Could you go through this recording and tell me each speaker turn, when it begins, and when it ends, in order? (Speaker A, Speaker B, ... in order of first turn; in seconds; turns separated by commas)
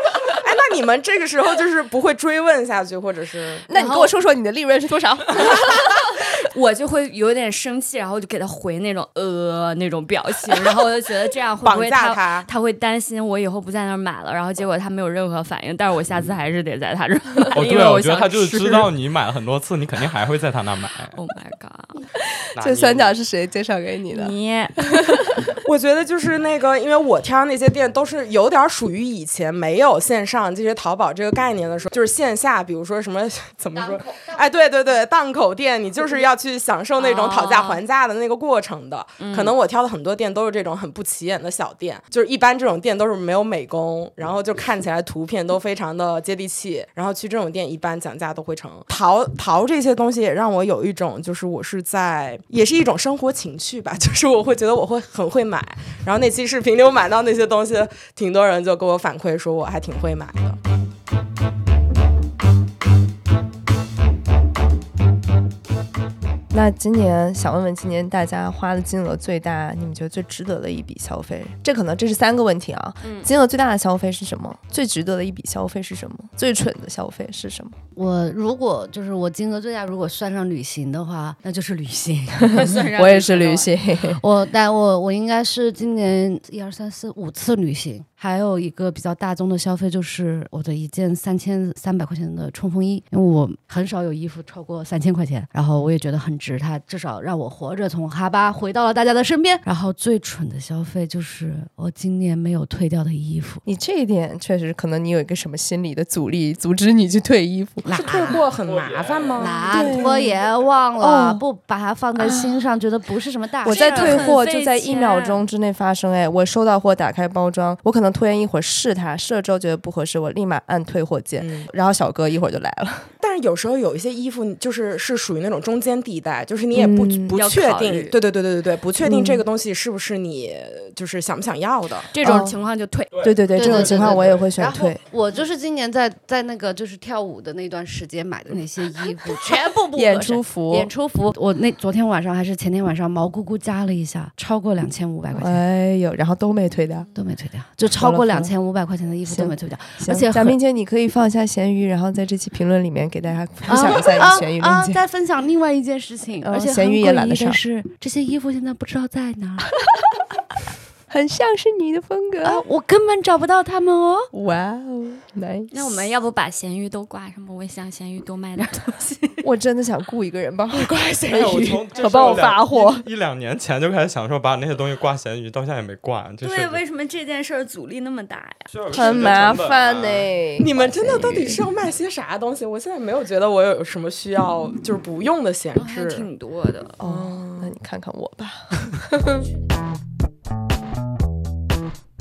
Speaker A: 0.2-3.7, Speaker B: 3.7-5.9, Speaker C: 3.7-4.1, Speaker C: 5.6-18.9, Speaker A: 11.6-12.5, Speaker D: 17.5-21.1, Speaker C: 21.1-22.0, Speaker D: 22.6-23.1, Speaker B: 22.6-24.3, Speaker C: 24.1-25.4, Speaker B: 24.9-25.5, Speaker A: 25.6-60.6, Speaker C: 37.0-37.8, Speaker C: 39.2-39.5, Speaker B: 66.5-77.8, Speaker C: 73.0-73.3, Speaker E: 77.9-82.6, Speaker B: 82.5-84.2, Speaker C: 82.5-83.7, Speaker E: 84.2-103.6, Speaker B: 103.6-107.9, Speaker E: 107.8-108.4, Speaker A: 107.9-109.9, Speaker E: 109.4-114.3, Speaker B: 109.7-110.4, Speaker B: 111.0-111.4, Speaker B: 112.2-112.6, Speaker B: 113.6-123.1, Speaker C: 113.7-115.4, Speaker A: 121.4-121.7, Speaker A: 123.2-132.1, Speaker B: 126.7-127.3, Speaker C: 127.3-128.2, Speaker B: 129.0-129.4, Speaker C: 132.1-134.1, Speaker B: 132.2-132.5, Speaker B: 133.2-135.0, Speaker E: 133.5-145.6, Speaker B: 139.9-140.9, Speaker B: 145.3-147.1, Speaker E: 147.2-150.6, Speaker B: 147.9-148.5, Speaker B: 149.2-155.0, Speaker E: 153.7-159.7, Speaker B: 156.4-157.6, Speaker B: 161.1-162.6, Speaker E: 162.4-164.3, Speaker B: 164.3-166.1, Speaker C: 165.7-169.4, Speaker B: 169.4-173.1, Speaker D: 171.2-176.8, Speaker C: 176.4-178.7, Speaker D: 178.7-180.3, Speaker B: 178.9-181.7, Speaker A: 180.6-186.3, Speaker C: 185.7-187.0, Speaker B: 187.0-189.5, Speaker A: 187.0-187.7